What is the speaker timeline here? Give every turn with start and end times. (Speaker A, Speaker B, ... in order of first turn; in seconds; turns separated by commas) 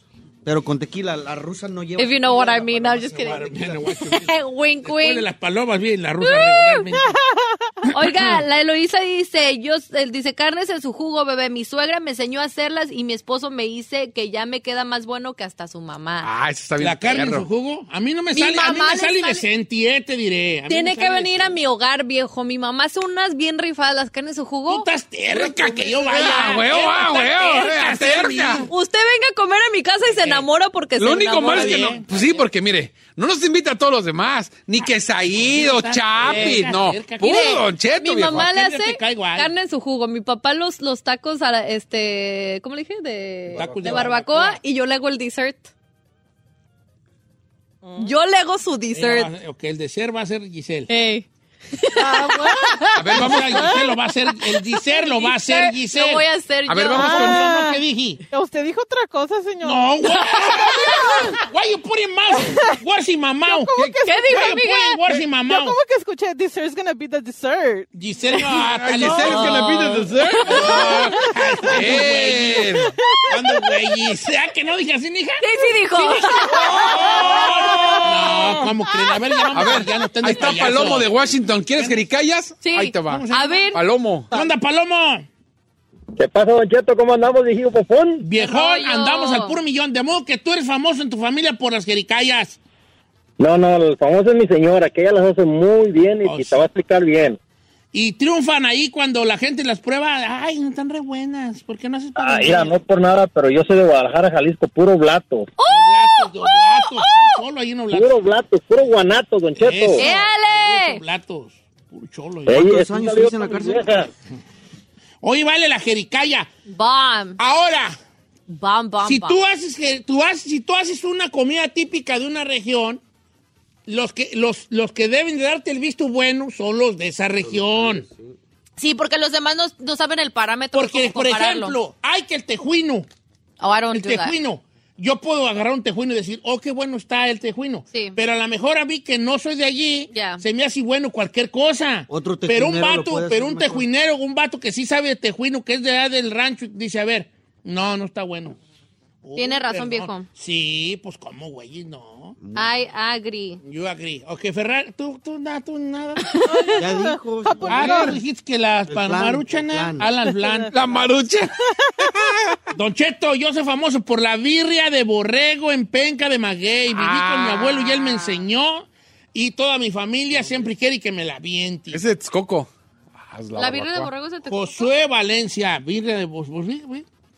Speaker A: 0.5-4.2, Speaker B: 2.0-5.3, Speaker C: 3.3-7.2, Speaker B: 6.2-6.9, Speaker D: 6.9-7.7, Speaker B: 7.9-16.3, Speaker C: 7.9-8.4, Speaker E: 16.2-17.5, Speaker C: 16.8-21.6, Speaker B: 18.3-19.4, Speaker B: 20.7-24.9, Speaker C: 24.7-28.7, Speaker E: 25.4-28.7, Speaker B: 28.7-31.9, Speaker C: 30.1-30.5, Speaker E: 31.0-38.5, Speaker C: 31.4-32.4, Speaker C: 34.8-37.6, Speaker B: 36.2-36.6, Speaker B: 37.2-45.7, Speaker C: 38.2-39.5, Speaker A: 43.5-44.3, Speaker C: 43.5-44.6, Speaker D: 47.8-48.1, Speaker B: 48.0-49.3, Speaker C: 48.9-50.9, Speaker B: 50.9-53.3, Speaker D: 52.0-53.9, Speaker E: 53.0-53.8, Speaker C: 53.1-56.3, Speaker B: 54.5-57.4, Speaker E: 56.7-57.5, Speaker D: 56.9-60.0, Speaker C: 57.1-58.2, Speaker C: 59.6-65.8, Speaker B: 60.5-61.1, Speaker D: 62.4-62.8, Speaker D: 63.5-64.6, Speaker B: 64.0-65.0, Speaker D: 65.4-67.9, Speaker C: 67.9-72.8, Speaker E: 68.7-72.9, Speaker D: 69.0-69.9, Speaker B: 69.4-70.8, Speaker D: 70.4-72.0, Speaker D: 72.8-74.0, Speaker C: 73.3-82.1, Speaker B: 75.4-78.7, Speaker D: 76.4-78.6, Speaker E: 79.5-84.3, Speaker B: 82.6-83.8, Speaker C: 83.0-83.7, Speaker C: 84.3-85.3, Speaker F: 86.2-88.3, Speaker C: 88.2-92.6, Speaker B: 88.4-89.6, Speaker F: 93.4-97.4, Speaker C: 96.2-96.7, Speaker C: 97.9-102.8, Speaker F: 102.2-105.5, Speaker B: 105.6-107.4, Speaker C: 105.7-108.2, Speaker F: 107.9-110.0, Speaker C: 109.6-112.6, Speaker B: 110.0-111.0, Speaker F: 112.5-114.1, Speaker A: 112.5-114.1, Speaker C: 115.2-116.5, Speaker B: 116.7-117.4, Speaker C: 117.4-118.0, Speaker B: 118.5-119.4, Speaker C: 119.0-123.0, Speaker C: 123.9-128.1, Speaker A: 127.4-128.4, Speaker B: 128.8-131.8, Speaker C: 130.7-133.1, Speaker B: 133.6-134.3, Speaker C: 133.9-148.6, Speaker B: 137.9-138.2, Speaker B: 140.1-140.4, Speaker A: 142.1-143.9, Speaker C: 149.2-152.3, Speaker B: 149.4-150.3, Speaker A: 152.4-152.8, Speaker B: 152.6-153.6, Speaker C: 153.6-156.4, Speaker B: 156.3-156.8, Speaker D: 156.4-158.2, Speaker A: 156.8-158.2, Speaker C: 157.7-160.7, Speaker E: 157.9-158.1, Speaker A: 158.9-160.1, Speaker D: 160.2-160.8, Speaker E: 160.7-162.6, Speaker D: 161.7-162.1, Speaker C: 162.7-172.0, Speaker E: 166.9-167.7, Speaker B: 168.1-168.4, Speaker A: 170.3-170.7, Speaker E: 171.9-174.1, Speaker B: 173.6-174.9, Speaker C: 174.5-177.1